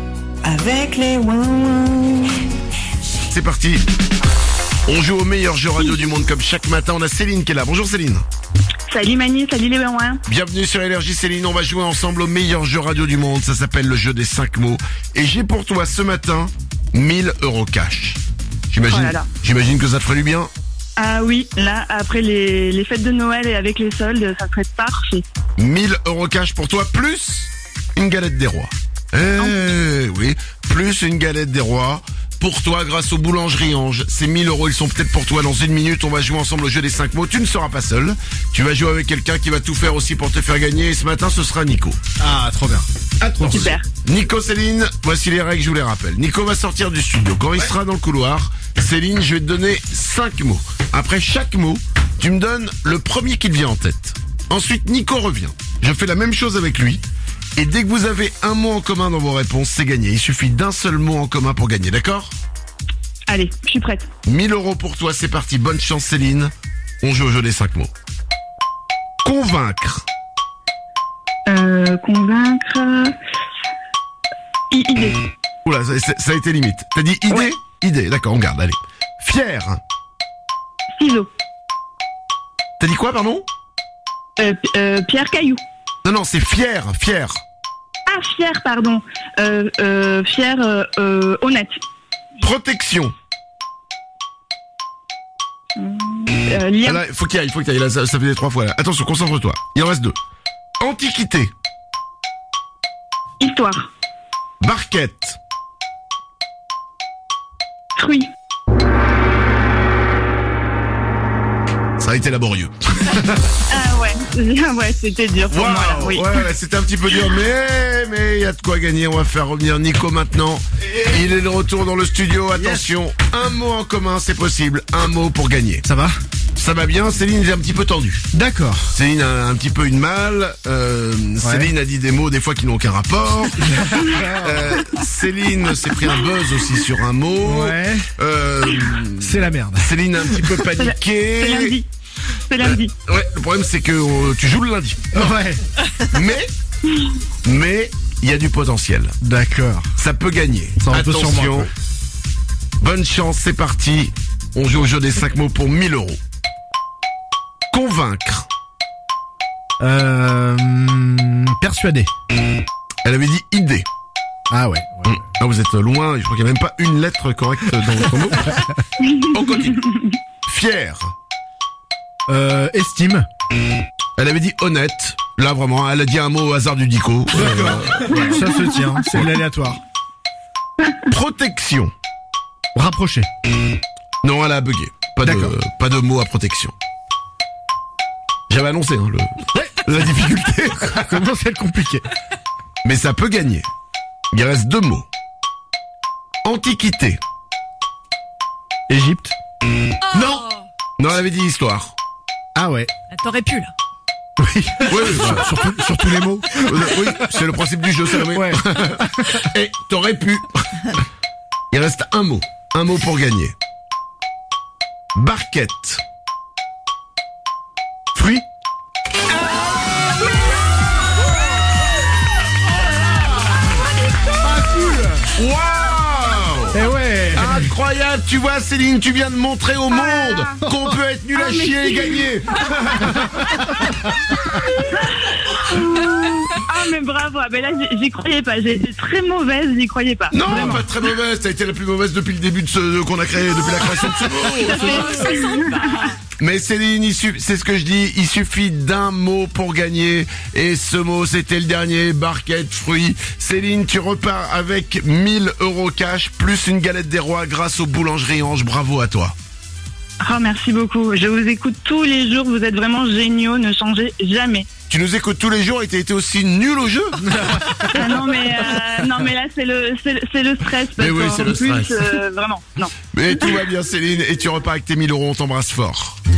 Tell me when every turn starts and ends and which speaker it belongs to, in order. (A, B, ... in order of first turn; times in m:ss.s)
0:00.4-0:02.4 A
0:03.3-0:03.8 B
0:04.9-0:08.2 B
0:08.9-0:10.2 C
0:10.3-0:20.5 B
0:18.8-0:19.3 C
0:21.0-0:25.2 C
0:25.6-0:42.0 B
0:42.2-0:42.9 D
0:43.2-0:57.0 B
0:43.5-0:43.8 C
0:57.6-1:02.3 B
1:03.3-1:04.1 C
1:04.2-1:07.9 B
1:09.2-1:10.1 B
1:11.5-1:13.1 C
1:14.7-1:15.3 C
1:15.6-1:19.8 B
1:21.0-1:21.3 C
1:22.8-1:23.4 B
1:24.4-1:25.6 C
1:26.0-1:27.4 B
1:28.1-1:31.8 C
1:32.4-1:33.1 B
1:35.8-1:37.0 C
1:36.8-1:40.2 B
1:40.8-1:41.5 B
1:43.4-1:43.9 C
1:44.6-1:45.4 B
1:48.0-1:48.3 C
1:52.0-1:53.4 B
1:53.7-1:56.4 C
1:55.5-2:05.8 B
2:02.5-2:02.9 D
2:05.8-2:06.1 D
2:06.6-2:08.2 B
2:08.3-2:08.9 D
2:08.9-2:21.8 B
2:11.4-2:11.7 D
2:13.6-2:14.7 D
2:17.4-2:18.1 D
2:19.2-2:20.5 D
2:20.8-2:21.9 C
2:22.5-2:22.9 C
2:22.6-2:25.3 B
2:25.1-2:25.6 D
2:26.0-2:26.5 B
2:27.4-2:29.2 B
2:29.2-2:29.9 D
2:30.0-2:31.7 B
2:30.8-2:31.7 D
2:32.8-2:36.2 B
2:37.7-2:38.5 B
2:39.8-2:42.1 D
2:43.0-2:43.8 B
2:44.5-2:45.2 D
2:45.0-2:48.7 B
2:49.0-2:50.1 C
2:49.2-2:49.8 B
2:50.4-2:51.1 B
2:52.3-2:53.3 D
2:54.2-2:58.3 B
2:57.3-2:59.8 D
2:58.1-2:58.9 C
3:01.0-3:01.9 B
3:02.7-3:03.3 D
3:04.2-3:06.7 B
3:05.2-3:05.5 D
3:08.5-3:11.3 B
3:09.5-3:09.8 D
3:10.9-3:12.1 D
3:12.8-3:13.7 B
3:14.3-3:15.0 B
3:16.4-3:17.2 B
3:18.9-3:19.3 D
3:20.1-3:21.9 B
3:22.5-3:22.9 D
3:23.1-3:23.7 E
3:24.4-3:27.4 D
3:24.9-3:31.0 B
3:28.2-3:29.5 D
3:31.7-3:33.5 B
3:35.1-3:36.0 B
3:38.1-3:38.4 B
3:44.3-3:45.3 D
3:45.3-3:53.6 B
3:46.7-3:47.7 D
3:49.9-3:50.5 C
3:50.6-3:50.9 D
3:51.3-3:52.3 C
3:53.0-3:53.9 D
3:54.7-4:00.4 C
4:00.3-4:05.3 B
4:00.5-4:00.9 D
4:04.5-4:06.1 C
4:04.8-4:06.1 E
4:06.4-4:19.3 B
4:20.2-4:24.7 C
4:24.9-4:27.2 B
4:27.3-4:27.9 D
4:27.9-4:32.9 C
4:31.0-4:32.2 B
4:33.1-4:36.2 B